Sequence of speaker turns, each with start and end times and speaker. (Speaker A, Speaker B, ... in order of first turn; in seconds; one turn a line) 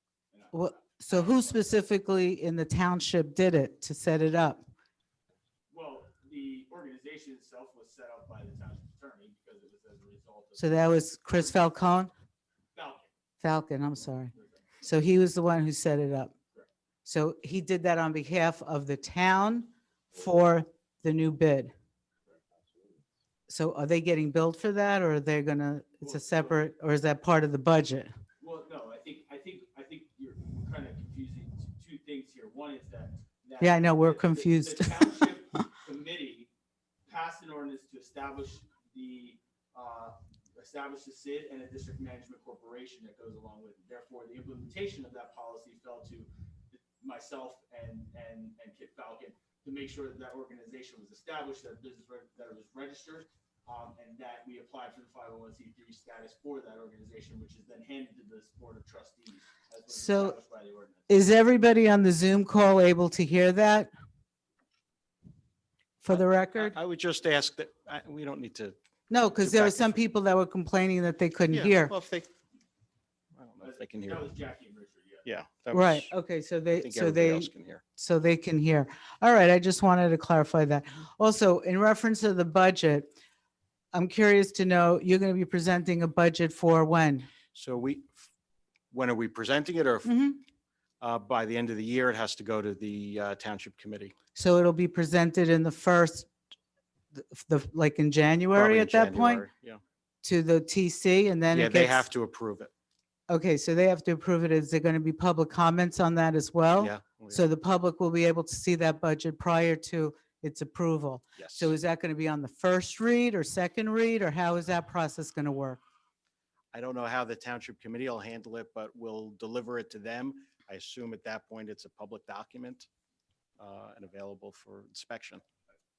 Speaker A: 0.3-1.9
Speaker B: 0.5-4.7
Speaker A: 5.7-10.8
Speaker B: 10.6-12.1
Speaker A: 12.8-13.1
Speaker B: 13.4-14.3
Speaker A: 14.3-14.7
Speaker B: 14.8-16.3
Speaker B: 17.1-21.7
Speaker B: 23.5-28.1
Speaker A: 26.0-26.6
Speaker A: 28.4-36.5
Speaker B: 33.6-35.3
Speaker A: 37.1-61.1
Speaker B: 59.9-60.4
Speaker B: 61.1-63.9
Speaker B: 66.0-66.8
Speaker C: 66.1-68.8
Speaker B: 69.1-71.9
Speaker C: 69.4-70.0
Speaker C: 71.5-72.3
Speaker C: 73.4-74.3
Speaker A: 73.6-75.3
Speaker C: 75.3-76.1
Speaker B: 75.7-83.1
Speaker C: 76.8-77.8
Speaker B: 83.9-87.3
Speaker C: 87.5-88.3
Speaker C: 88.9-90.1
Speaker B: 90.0-90.4
Speaker C: 91.0-94.1
Speaker B: 94.3-96.3
Speaker B: 97.1-99.5
Speaker C: 98.5-99.8
Speaker B: 100.2-102.1
Speaker C: 101.5-102.7
Speaker B: 103.3-115.8
Speaker C: 106.8-107.4
Speaker C: 111.4-111.7
Speaker C: 116.7-122.9
Speaker C: 123.6-125.4